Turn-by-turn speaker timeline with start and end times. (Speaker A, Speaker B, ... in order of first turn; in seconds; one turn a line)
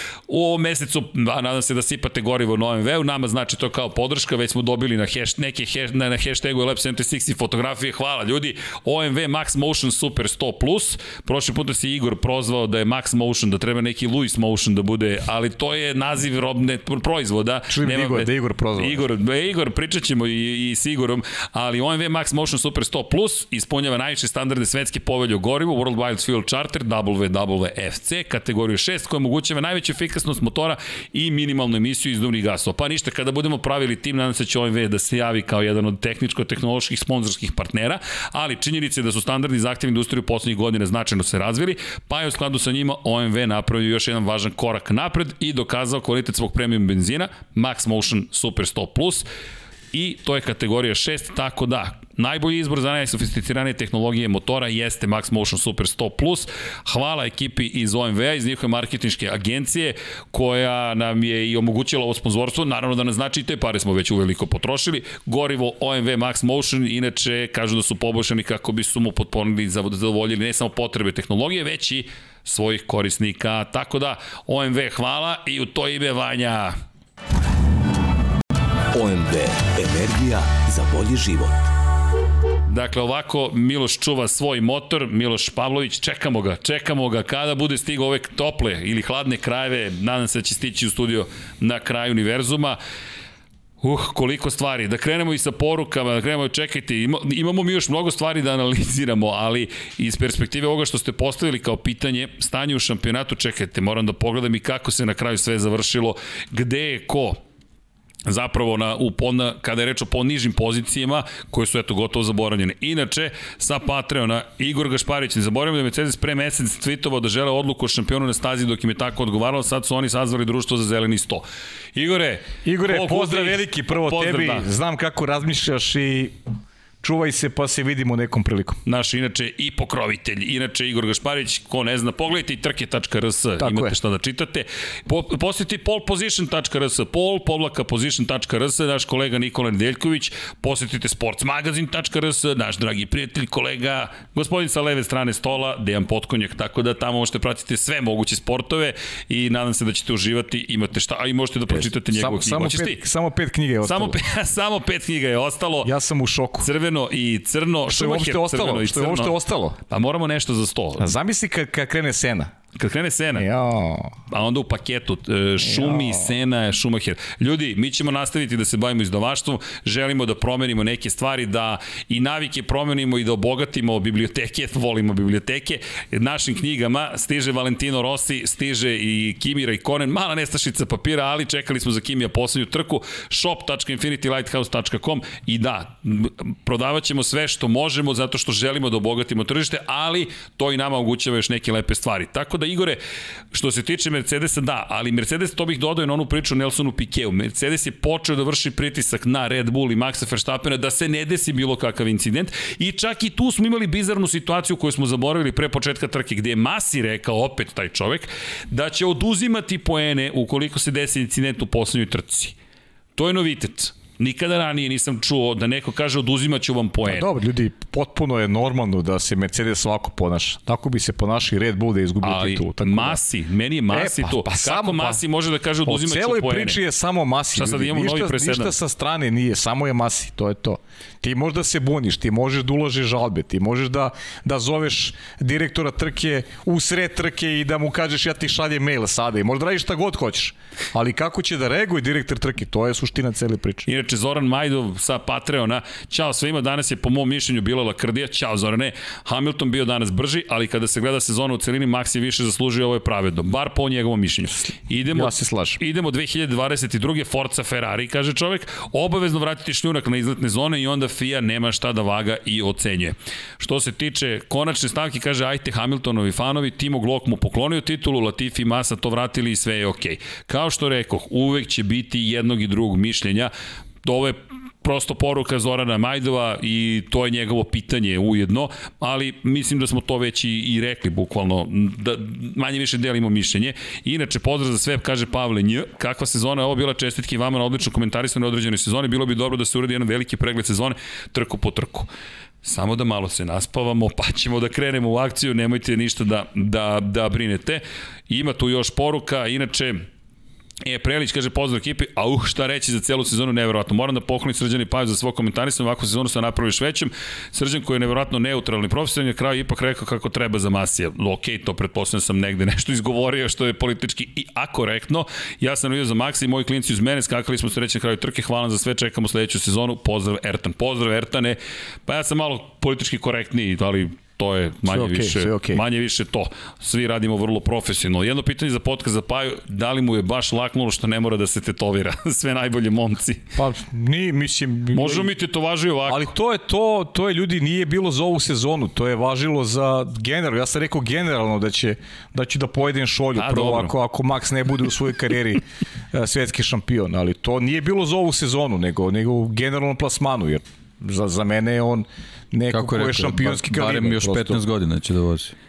Speaker A: 0.3-49.3
Speaker B: 17.7-19.0
Speaker A: 49.9-76.8
Speaker C: 78.9-81.7
Speaker A: 82.7-92.8
Speaker A: 93.8-107.4
Speaker A: 108.2-124.7
Speaker B: 122.6-126.3
Speaker B: 127.0-128.8
Speaker A: 128.8-153.0
Speaker B: 133.6-133.9
Speaker B: 151.7-154.2
Speaker A: 153.8-155.9
Speaker B: 155.8-156.7
Speaker A: 156.6-159.3
Speaker B: 157.9-159.8
Speaker A: 159.9-161.1
Speaker B: 161.0-162.5
Speaker A: 162.8-163.4
Speaker B: 163.3-164.1
Speaker A: 164.3-193.0
Speaker B: 165.6-166.3
Speaker A: 193.5-212.5
Speaker A: 213.2-217.3
Speaker B: 217.0-223.2
Speaker A: 222.2-226.8
Speaker B: 223.9-225.2
Speaker B: 225.8-243.9
Speaker A: 227.5-228.7
Speaker A: 243.8-273.5
Speaker B: 255.1-255.8
Speaker A: 274.0-292.1
Speaker A: 292.6-300.1
Speaker A: 300.8-333.4
Speaker B: 324.8-325.8
Speaker B: 333.6-335.3
Speaker A: 334.9-336.3
Speaker B: 336.1-345.6
Speaker A: 343.4-343.9
Speaker B: 346.1-354.6
Speaker D: 352.7-355.5